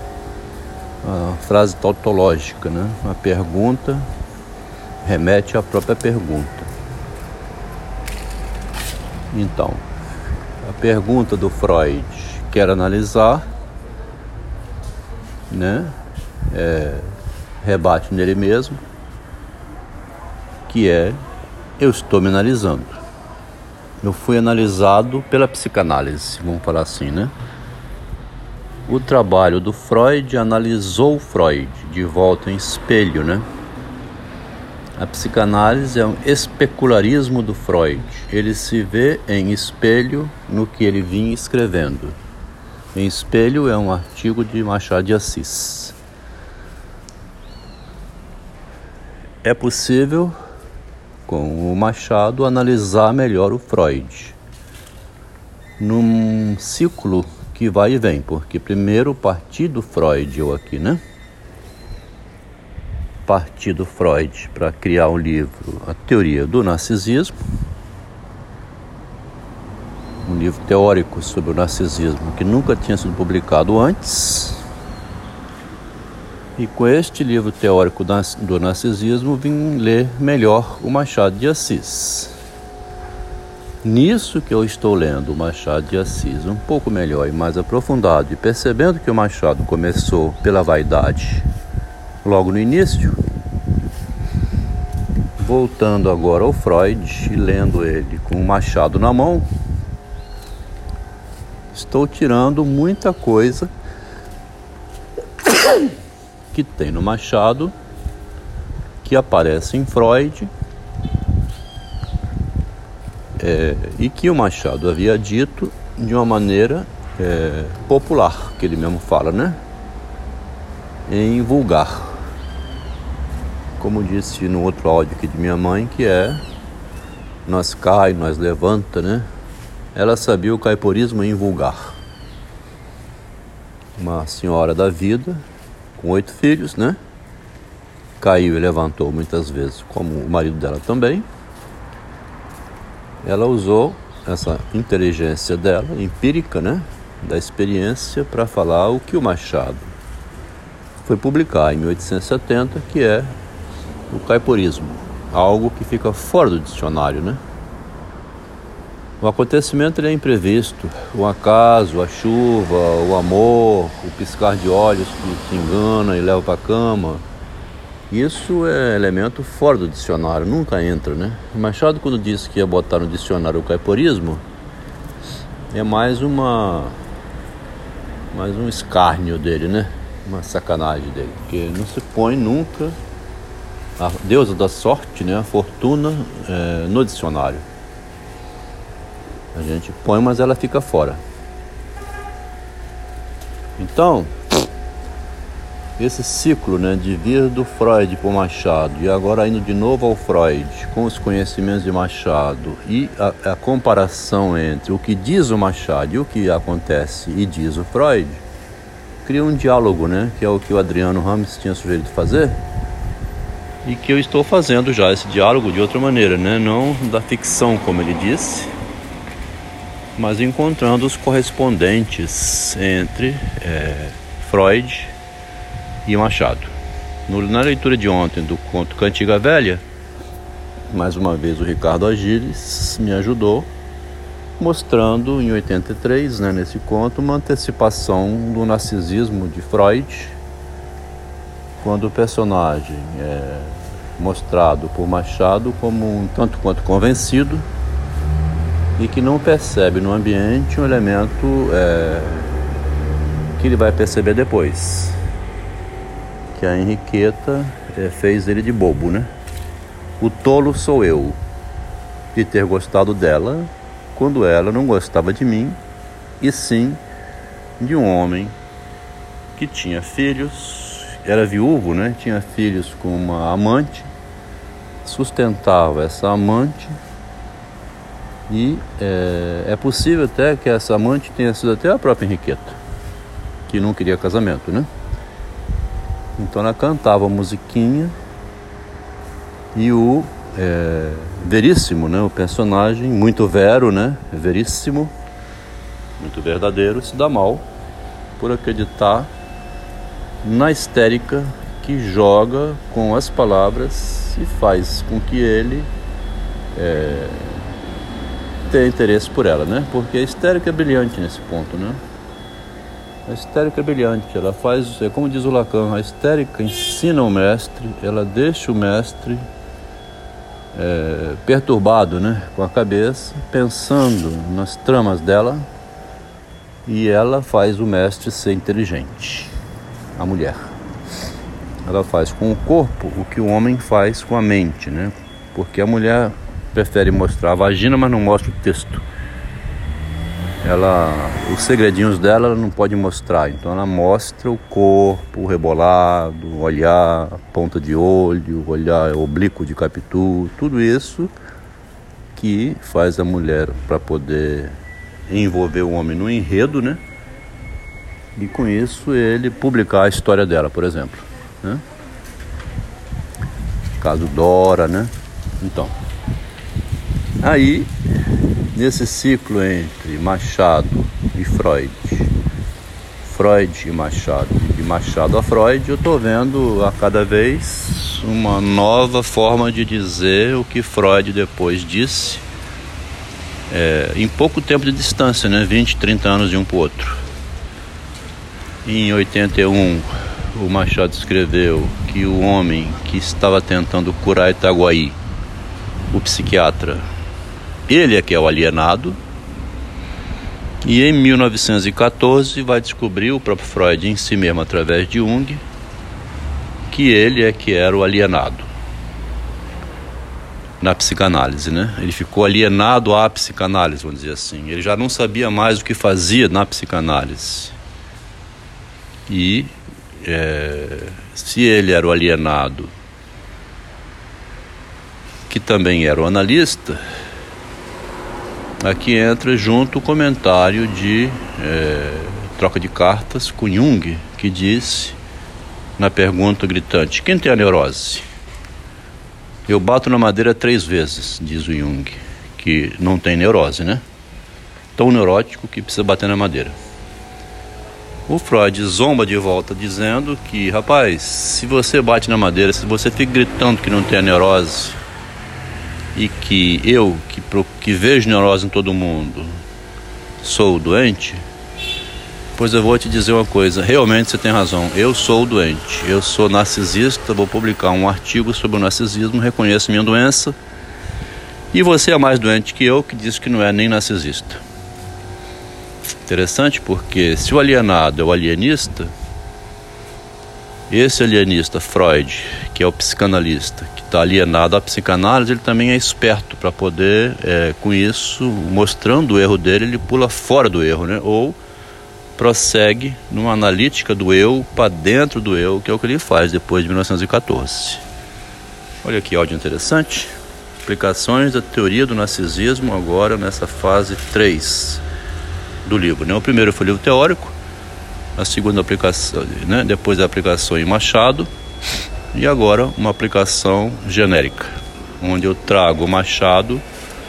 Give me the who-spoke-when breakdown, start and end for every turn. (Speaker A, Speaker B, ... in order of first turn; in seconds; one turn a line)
Speaker A: 1.0-4.0
Speaker A: 5.0-6.7
Speaker A: 9.3-9.8
Speaker A: 10.6-13.4
Speaker A: 15.5-15.9
Speaker A: 16.5-18.8
Speaker A: 20.7-21.2
Speaker A: 21.8-23.0
Speaker A: 24.0-27.3
Speaker A: 28.9-33.4
Speaker A: 35.0-42.2
Speaker A: 42.9-46.0
Speaker A: 49.4-50.3
Speaker A: 51.3-54.4
Speaker A: 55.8-61.0
Speaker A: 63.2-67.3
Speaker A: 70.2-74.6
Speaker A: 76.6-82.3
Speaker A: 83.8-91.4
Speaker A: 92.2-93.2
Speaker A: 95.4-99.5
Speaker A: 101.7-103.7
Speaker A: 106.5-107.7
Speaker A: 109.0-110.5
Speaker A: 113.4-119.6
Speaker A: 121.1-122.2
Speaker A: 123.8-126.4
Speaker A: 127.5-129.2
Speaker A: 129.9-132.0
Speaker A: 133.9-135.4
Speaker A: 136.0-137.0
Speaker A: 138.2-141.2
Speaker A: 143.2-149.9
Speaker A: 151.0-153.3
Speaker A: 154.1-157.4
Speaker A: 159.2-167.2
Speaker A: 168.1-174.4
Speaker A: 175.7-177.0
Speaker A: 178.3-183.0
Speaker A: 184.0-187.6
Speaker A: 189.5-191.2
Speaker A: 193.8-194.4
Speaker A: 196.0-208.4
Speaker A: 209.2-212.6
Speaker A: 213.8-218.7
Speaker A: 220.2-225.1
Speaker A: 226.0-226.7
Speaker A: 227.3-229.8
Speaker A: 230.9-233.7
Speaker A: 234.6-240.3
Speaker A: 241.8-247.6
Speaker A: 249.0-252.6
Speaker A: 253.6-255.2
Speaker A: 256.5-259.3
Speaker A: 260.2-261.4
Speaker A: 262.3-265.8
Speaker A: 266.4-267.0
Speaker A: 267.8-268.5
Speaker A: 269.5-274.1
Speaker A: 275.0-277.0
Speaker A: 278.5-282.8
Speaker A: 283.7-284.9
Speaker A: 286.4-288.1
Speaker A: 289.7-295.1
Speaker A: 296.2-297.6
Speaker A: 298.4-299.3
Speaker A: 300.4-305.9
Speaker A: 306.7-307.7
Speaker A: 308.6-312.0
Speaker A: 313.2-319.4
Speaker A: 320.7-325.6
Speaker A: 326.9-329.5
Speaker A: 330.1-330.7
Speaker A: 331.8-339.0
Speaker A: 340.6-351.3
Speaker A: 352.3-354.8
Speaker A: 355.3-357.0
Speaker A: 358.3-361.8
Speaker A: 364.0-365.9
Speaker A: 367.4-367.9
Speaker A: 368.7-372.3
Speaker A: 373.2-382.4
Speaker A: 383.7-387.2
Speaker A: 388.8-395.2
Speaker A: 396.1-397.1
Speaker A: 397.9-399.2
Speaker A: 400.8-405.6
Speaker A: 406.9-408.7
Speaker A: 410.8-417.7
Speaker A: 419.3-422.9
Speaker A: 425.5-427.0
Speaker A: 428.8-435.2
Speaker A: 436.0-438.2
Speaker A: 439.7-444.0
Speaker A: 444.9-446.7
Speaker A: 448.3-455.0
Speaker A: 456.1-459.5
Speaker A: 460.4-461.4
Speaker A: 462.6-470.5
Speaker A: 471.7-474.6
Speaker A: 476.3-479.1
Speaker A: 480.9-491.6
Speaker A: 492.4-498.0
Speaker A: 499.0-500.3
Speaker A: 500.8-505.0
Speaker A: 505.8-507.5
Speaker A: 508.4-511.5
Speaker A: 512.3-516.8